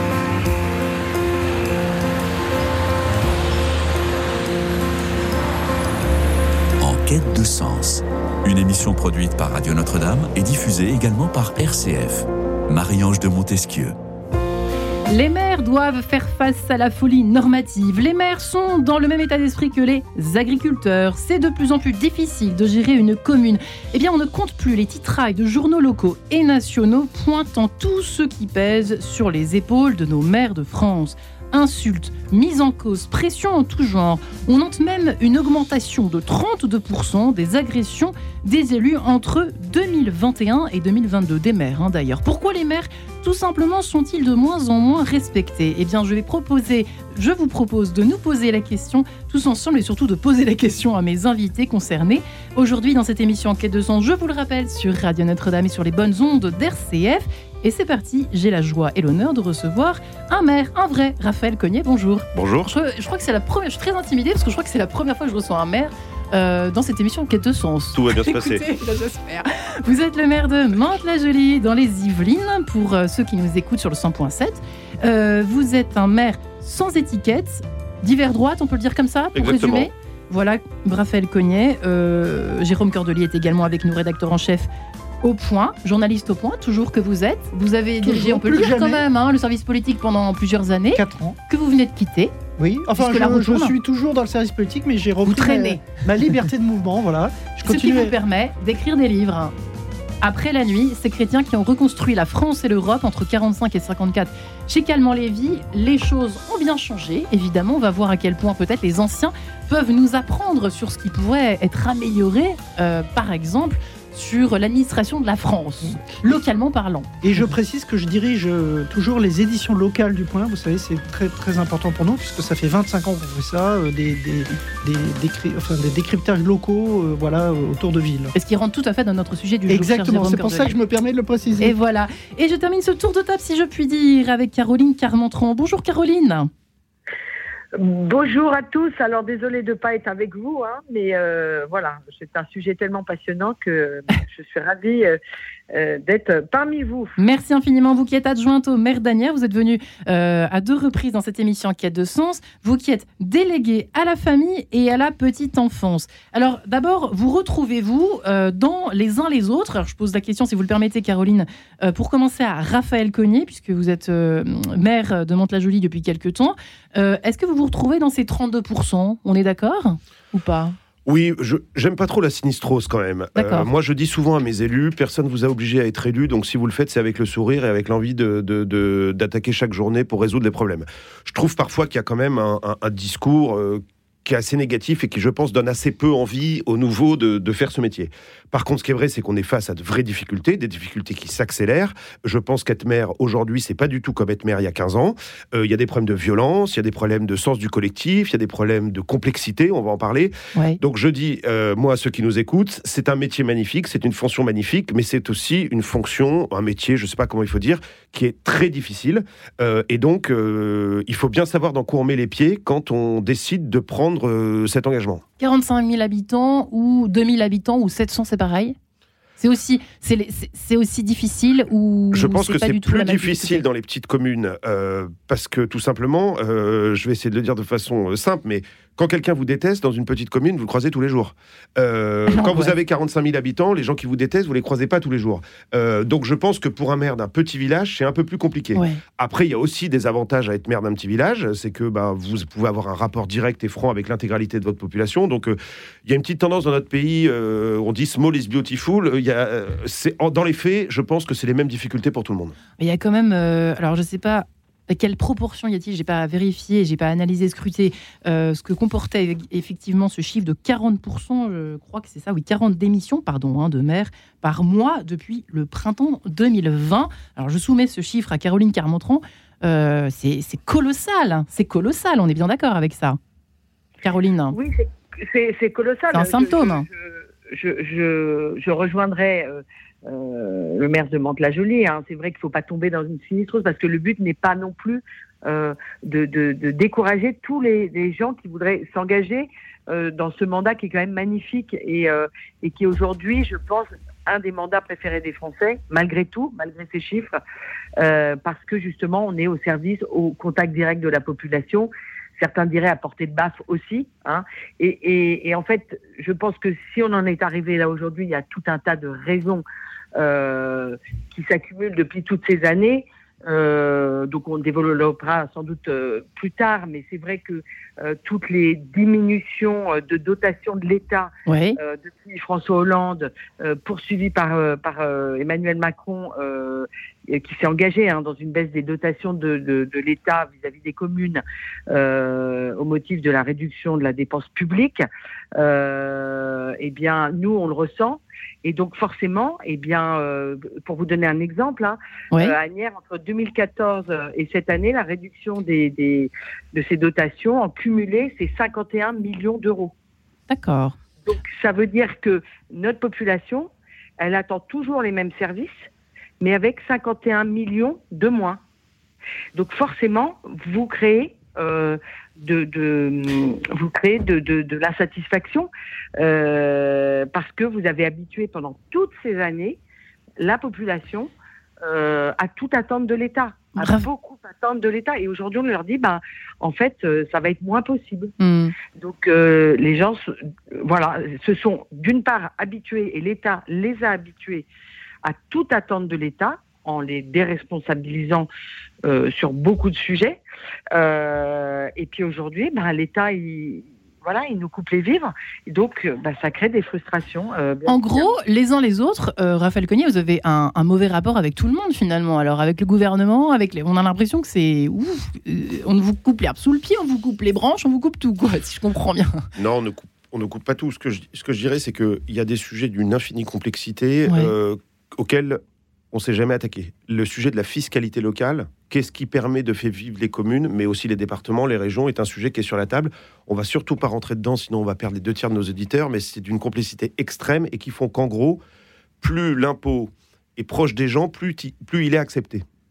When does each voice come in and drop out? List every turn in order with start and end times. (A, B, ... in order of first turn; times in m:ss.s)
0:06.8-0:13.9 A
0:15.1-1:24.7 B
1:02.3-1:02.7 C
1:07.9-1:08.6 C
1:19.3-1:19.9 C
1:25.2-1:32.3 B
1:28.0-1:29.0 D
1:30.9-1:31.4 D
1:32.6-1:38.1 D
1:33.0-1:33.7 B
1:35.2-1:35.9 B
1:37.6-1:39.5 B
1:40.2-1:57.5 B
1:57.2-2:08.3 D
2:08.3-2:10.7 B
2:09.7-2:11.7 D
2:11.6-2:16.5 B
2:17.7-2:25.2 E
2:25.7-2:27.2 E
2:27.2-2:50.8 B
2:51.0-3:35.2 C
2:53.4-2:53.7 B
3:20.5-3:20.8 B
3:35.4-3:38.8 B
3:39.4-3:43.6 B
3:42.1-4:12.6 C
3:52.3-3:52.7 B
3:58.7-3:59.0 B
4:12.8-4:33.2 B
4:34.0-4:34.6 B
4:34.5-4:57.3 E
4:36.1-4:36.9 B
4:58.0-5:09.6 E
5:10.2-5:35.0 E
5:21.4-5:21.8 B
5:35.6-5:49.9 E
5:50.5-5:51.0 B
5:51.2-5:55.8 E
5:56.4-5:58.6 E
5:59.5-6:09.8 E
6:10.4-6:11.3 E
6:11.8-6:18.3 E
6:13.8-6:14.1 B
6:18.4-6:18.7 B
6:19.0-6:24.6 E
6:25.2-6:28.5 E
6:29.0-6:30.4 E
6:30.9-6:38.3 E
6:37.8-6:49.5 B
6:49.6-6:55.6 C
6:54.3-6:54.5 B
6:56.1-7:08.6 C
7:09.2-7:12.6 C